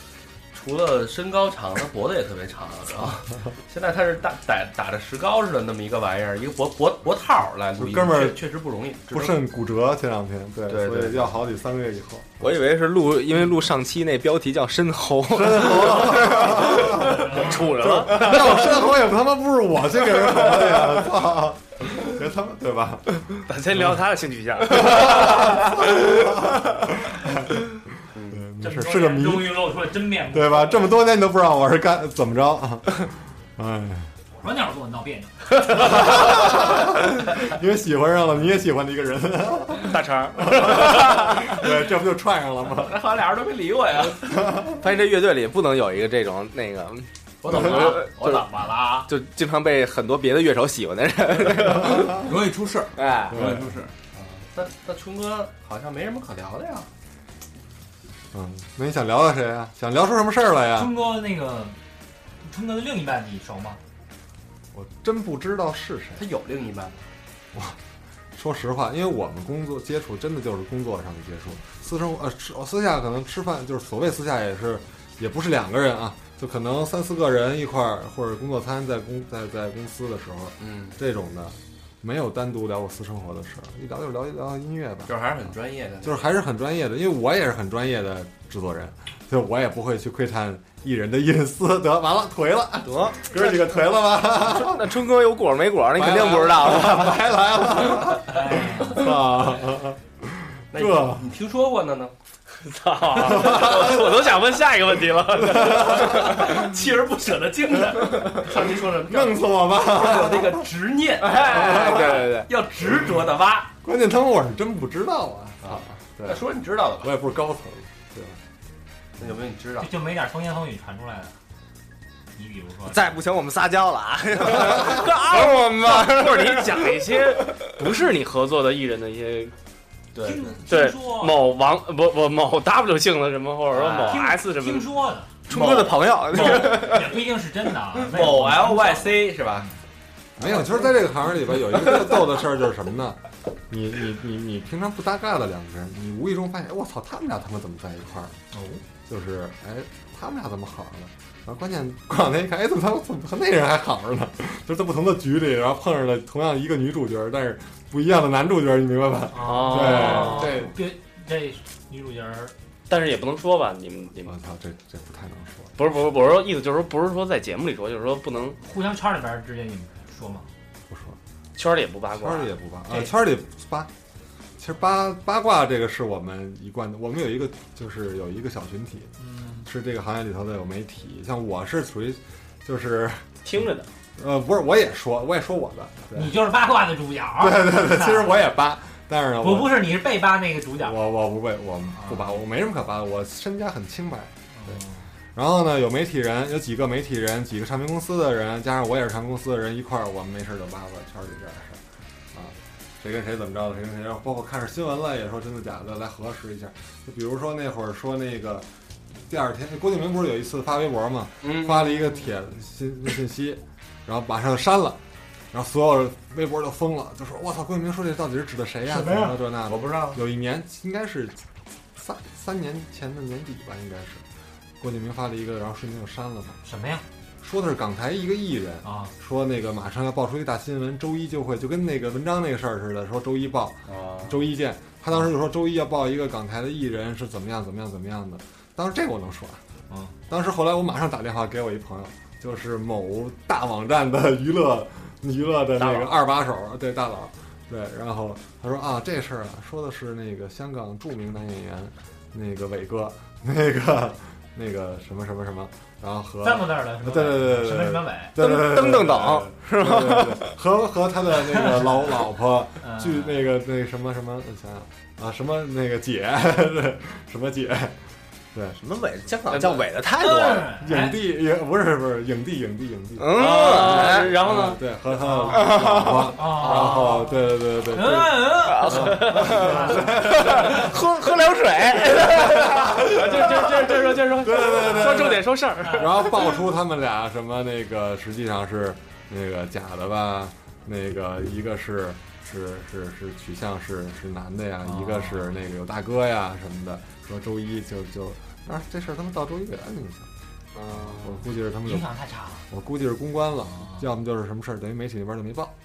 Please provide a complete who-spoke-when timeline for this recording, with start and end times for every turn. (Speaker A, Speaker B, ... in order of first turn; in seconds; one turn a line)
Speaker A: 0.5-9.4
Speaker B: 7.8-8.5
Speaker B: 9.1-12.4
Speaker A: 10.7-11.4
Speaker C: 12.4-17.0
Speaker B: 15.3-24.0
Speaker D: 16.3-18.5
Speaker E: 17.0-17.6
Speaker C: 18.0-18.4
Speaker D: 23.4-26.2
Speaker B: 24.7-27.6
Speaker A: 28.1-28.4
Speaker B: 28.3-34.1
Speaker E: 28.6-31.0
Speaker E: 34.4-35.5
Speaker B: 35.7-43.0
Speaker D: 39.8-41.3
Speaker A: 42.7-44.5
Speaker B: 44.2-44.8
Speaker C: 44.8-48.5
Speaker A: 47.4-49.1
Speaker C: 49.0-52.3
Speaker F: 51.9-53.9
Speaker C: 52.9-53.4
Speaker B: 53.3-53.8
Speaker A: 54.1-56.9
Speaker B: 58.3-61.0
Speaker E: 60.8-61.8
Speaker E: 62.4-63.8
Speaker B: 64.7-66.3
Speaker A: 66.2-67.0
Speaker B: 68.3-85.1
Speaker A: 80.6-81.0
Speaker A: 85.1-86.3
Speaker B: 86.0-94.9
Speaker C: 93.0-93.7
Speaker C: 94.3-97.2
Speaker B: 96.0-101.3
Speaker E: 98.3-99.1
Speaker A: 100.7-102.1
Speaker D: 102.6-106.5
Speaker A: 103.1-104.4
Speaker B: 103.2-104.0
Speaker B: 105.3-106.4
Speaker A: 105.7-113.7
Speaker B: 109.0-110.7
Speaker C: 111.2-112.5
Speaker D: 111.4-112.3
Speaker B: 111.5-112.1
Speaker B: 112.8-113.2
Speaker B: 113.8-116.5
Speaker A: 115.6-117.1
Speaker B: 117.0-118.4
Speaker A: 119.2-119.9
Speaker E: 119.8-121.3
Speaker E: 122.3-123.0
Speaker C: 122.9-127.0
Speaker D: 124.7-129.5
Speaker A: 130.1-130.6
Speaker E: 130.2-131.4
Speaker D: 130.7-134.9
Speaker A: 133.7-134.2
Speaker E: 134.0-135.4
Speaker C: 135.5-137.1
Speaker E: 136.3-139.7
Speaker A: 138.0-139.7
Speaker B: 140.4-148.4
Speaker E: 148.5-148.8
Speaker B: 149.1-160.7
Speaker E: 159.3-162.5
Speaker D: 159.4-160.7
Speaker D: 162.9-164.3
Speaker B: 164.2-165.8
Speaker D: 165.8-168.6
Speaker E: 168.6-170.5
Speaker B: 170.9-171.2
Speaker D: 171.6-172.5
Speaker B: 172.1-173.9
Speaker B: 174.6-186.4
Speaker E: 179.2-179.7
Speaker D: 183.4-183.9
Speaker E: 186.1-188.4
Speaker B: 187.4-190.0
Speaker E: 189.4-191.0
Speaker B: 190.8-194.8
Speaker E: 191.9-192.4
Speaker E: 194.6-195.0
Speaker B: 195.3-201.8
Speaker B: 202.3-208.7
Speaker B: 209.3-215.0
Speaker A: 211.4-212.0
Speaker B: 215.5-224.2
Speaker A: 219.7-220.2
Speaker B: 224.8-226.6
Speaker E: 226.6-227.0
Speaker B: 227.4-239.6
Speaker E: 228.8-229.1
Speaker A: 233.9-234.4
Speaker B: 240.3-268.0
Speaker D: 245.8-246.0
Speaker E: 256.4-258.3
Speaker C: 258.4-260.5
Speaker E: 262.8-263.5
Speaker B: 268.5-268.8
Speaker C: 268.8-270.7
Speaker D: 269.5-269.9
Speaker E: 270.2-271.1
Speaker B: 270.7-280.9
Speaker C: 273.2-274.4
Speaker D: 273.3-274.8
Speaker E: 275.1-280.0
Speaker C: 275.5-276.3
Speaker C: 278.6-283.1
Speaker D: 279.1-279.5
Speaker D: 282.1-286.5
Speaker B: 282.5-300.3
Speaker E: 285.8-286.3
Speaker E: 294.8-295.6
Speaker D: 300.8-301.3
Speaker B: 301.1-302.1
Speaker E: 301.8-302.7
Speaker B: 302.7-305.7
Speaker E: 303.8-304.0